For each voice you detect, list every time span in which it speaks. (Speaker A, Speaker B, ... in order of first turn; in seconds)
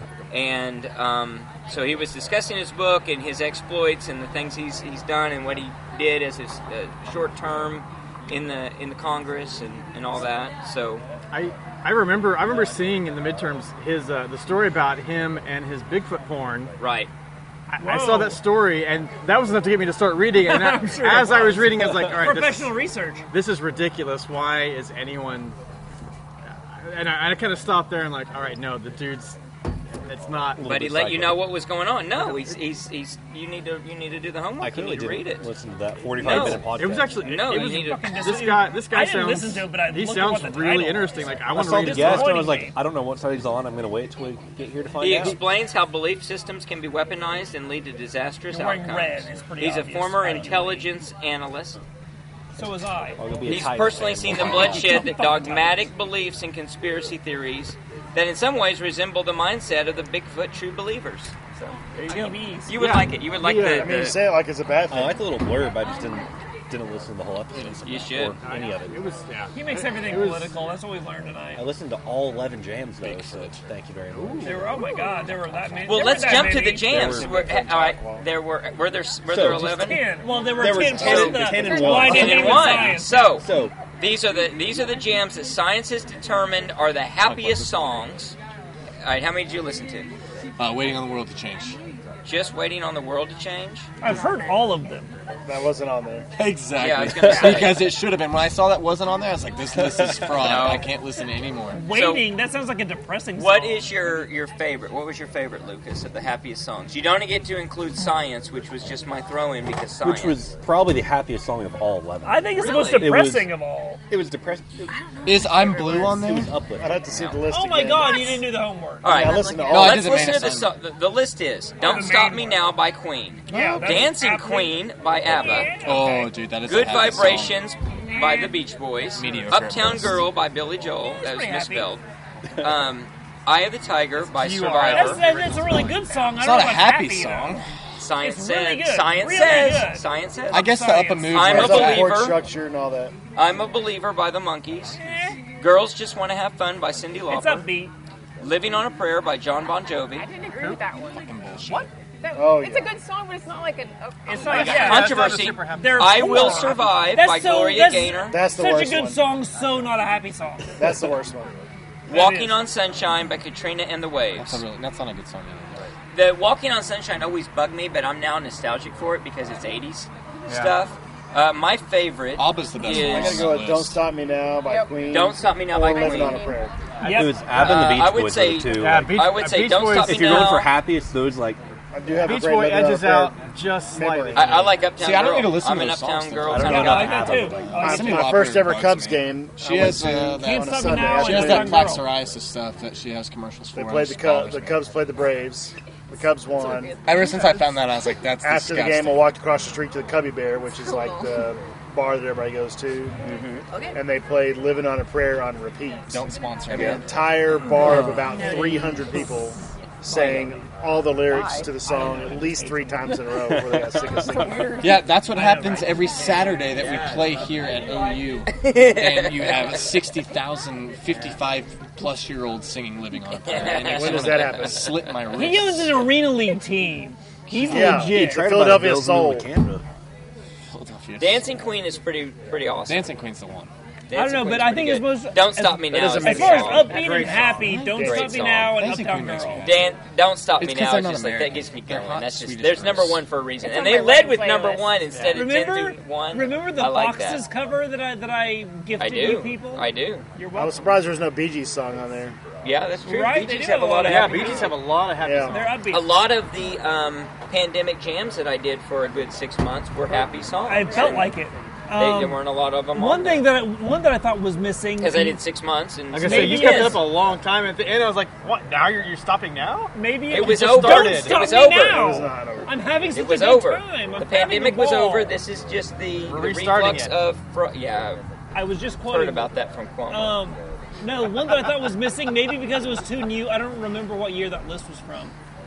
Speaker A: 0.3-11.0, 16.8-17.1, 30.6-35.5, 36.2-38.1, 45.0-51.8, 53.4-64.2, 67.8-68.4, 75.9-80.0, 80.8-88.3, 89.0-90.1, 92.2-93.9, 96.8-97.9, 100.4-100.8, 101.9-102.2, 103.3-110.4, 112.6-113.1, 117.1-117.4, 119.0-125.8, 126.6-132.0, 132.6-135.2, 138.0-140.7, 141.3-142.4, 143.3-145.0, 145.6-147.7, 148.4-150.3, 154.4-158.4, 162.1-164.6, 166.1-173.5, 175.1-176.5, 177.5-180.7, 184.3-187.2, 203.2-203.6, 218.5-219.7, 223.3-225.0, 231.2-233.1, 234.1-237.0, 237.9-238.8, 239.6-247.4, 249.0-250.2, 252.6-254.8, 255.9-261.3, 262.0-263.4, 265.0-267.0, 270.3-272.1, 273.1-278.2, 279.1-280.4
Speaker B: 11.3-16.7, 17.7-22.7, 23.3-25.6, 26.5-29.4, 30.1-30.6, 36.2-42.5, 62.7-64.0, 68.4-70.5, 74.2-74.6, 134.3-135.9, 150.5-150.8, 154.4-156.7, 170.5-170.7, 178.7-180.6, 182.2-184.7, 236.9-237.6, 245.1-245.4, 254.0-255.8, 266.1-271.4, 276.3-277.2
Speaker C: 17.8-18.4, 20.3-23.2, 37.5-42.8, 48.5-50.9, 52.5-53.2, 54.7-55.7, 61.9-62.7, 69.5-71.6, 74.4-77.1, 79.6-83.3, 94.0-95.1, 101.7-103.8, 112.2-114.0, 117.5-119.1, 121.8-122.5, 123.5-124.8, 125.3-126.3, 128.1-128.5, 131.2-131.9, 134.8-137.6, 138.2-141.4, 145.0-145.3, 147.3-147.9, 154.2-160.7, 162.1-162.6, 177.0-177.4, 186.6-188.3, 190.4-192.1, 211.8-213.0, 225.3-228.4, 234.1-235.5, 236.2-239.7, 245.3-250.9, 253.1-254.7, 255.5-256.1, 260.6-262.4, 262.9-265.4, 266.2-267.0, 269.9-275.3, 278.5-279.5, 280.1-285.3
Speaker D: 30.5-31.4, 34.6-37.3, 41.5-45.4, 53.2-55.1, 64.9-69.1, 71.5-74.8, 75.6-77.7, 79.2-83.7, 87.2-87.7, 97.2-97.7, 99.8-100.4, 110.0-113.5, 114.1-114.9, 115.8-117.3, 177.0-179.2, 179.9-181.6, 186.4-188.0, 213.4-214.4, 227.7-229.8
Speaker E: 63.7-65.2, 77.0-78.2, 95.4-96.3, 116.8-118.3, 119.0-120.1, 123.5-123.9, 141.3-143.1, 152.3-152.9, 158.3-159.2, 160.8-161.6, 172.8-176.7, 181.9-183.3, 183.9-184.8, 187.8-191.9, 193.7-196.9, 198.4-203.2, 203.9-214.7, 215.3-215.7, 223.7-224.9, 227.7-229.5, 237.9-238.3, 250.5-252.4, 255.2-255.5, 271.8-272.7
Speaker F: 67.5-68.0, 73.0-73.6, 81.8-82.9, 90.6-91.8, 96.4-101.8, 115.2-116.5, 119.7-120.7, 125.8-127.6, 129.1-130.3, 136.4-137.6, 140.5-142.2, 151.1-151.9, 164.3-165.9, 172.4-174.0, 184.9-187.2, 187.8-194.8, 197.0-199.3, 206.1-207.0, 207.8-208.4, 214.8-226.1, 227.5-228.0, 230.7-231.5, 232.9-233.7, 235.6-239.9, 240.6-243.2
Speaker G: 74.7-75.2, 81.6-82.0, 112.6-113.0, 114.9-116.2, 118.0-118.4, 119.1-119.7, 150.1-151.3, 152.2-155.2, 174.6-175.3, 175.8-176.6, 196.6-197.8, 200.7-201.4, 203.7-204.0, 208.2-209.5, 210.1-210.5, 211.3-211.8, 214.2-215.2, 215.7-216.2, 243.6-245.0